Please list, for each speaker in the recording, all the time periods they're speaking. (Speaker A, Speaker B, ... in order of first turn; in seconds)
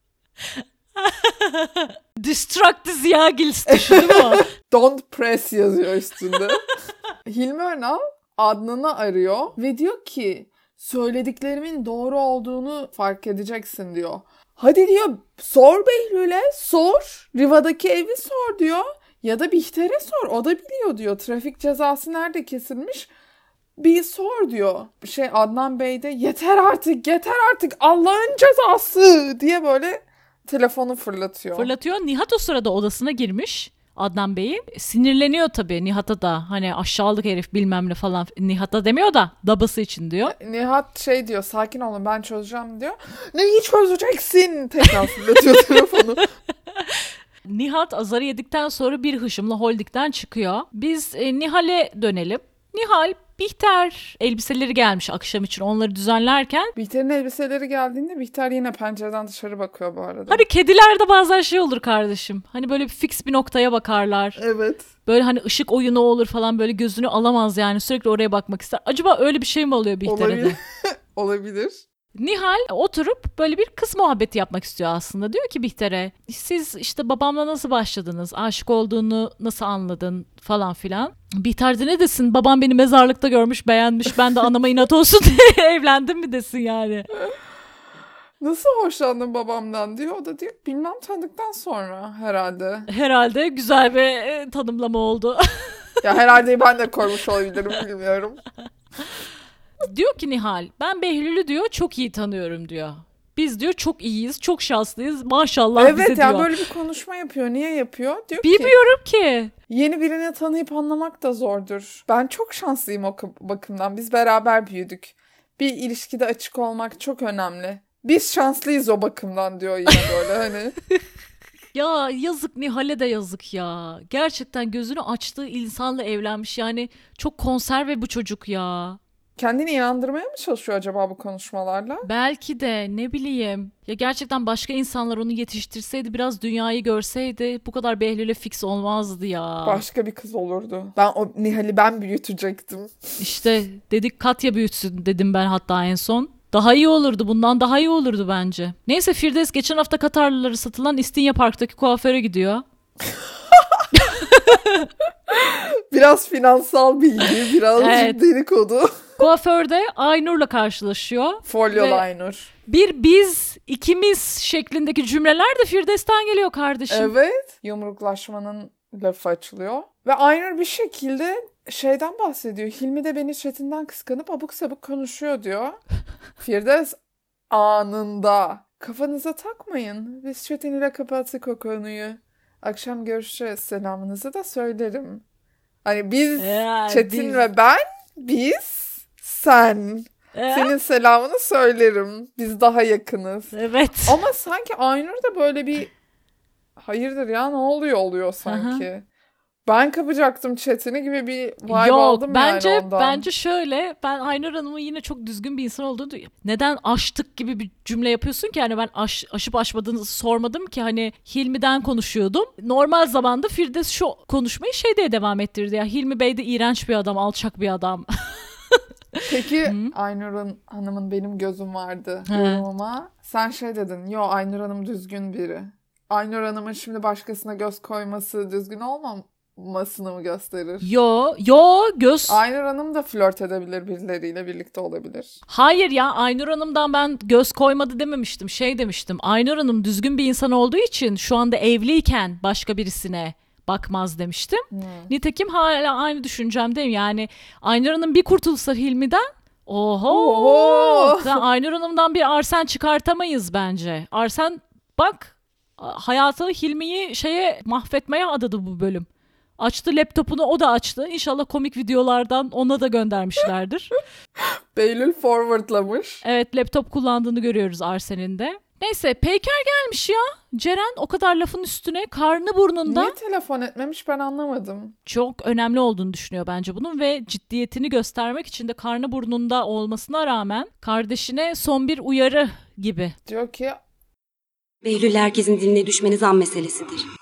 Speaker A: 0.6-4.4, 31.5-40.3, 46.8-56.7, 60.3-64.4, 65.1-70.6, 72.1-87.1, 92.9-95.8, 99.8-106.5, 108.4-109.5, 121.7-129.0, 132.0-139.8, 143.2-152.6, 153.9-154.9, 157.8-158.2, 159.2-162.0, 162.7-167.1, 186.4-187.4, 190.3-190.7, 193.5-194.2, 198.4-198.9, 201.7-219.9, 222.3-222.6, 230.8-232.4, 235.5-259.1, 259.6-263.9, 266.2-273.1, 275.1-283.1
Speaker B: 3.7-6.6, 7.2-23.1, 23.8-31.7, 40.2-46.3, 56.8-60.5, 64.4-64.9, 70.0-71.8, 88.4-92.9, 96.0-98.4, 105.8-108.8, 109.7-120.8, 129.4-132.1, 139.6-143.1, 153.5-153.8, 155.3-159.2, 161.4-162.5, 166.9-175.8, 176.4-177.0, 177.5-185.2, 185.8-193.5, 194.1-195.9, 196.8-199.1, 199.6-203.2, 219.3-230.9, 232.3-235.4, 244.7-245.1, 250.1-251.4, 264.4-266.2, 272.9-275.0, 283.3-283.8
Speaker C: 284.8-287.0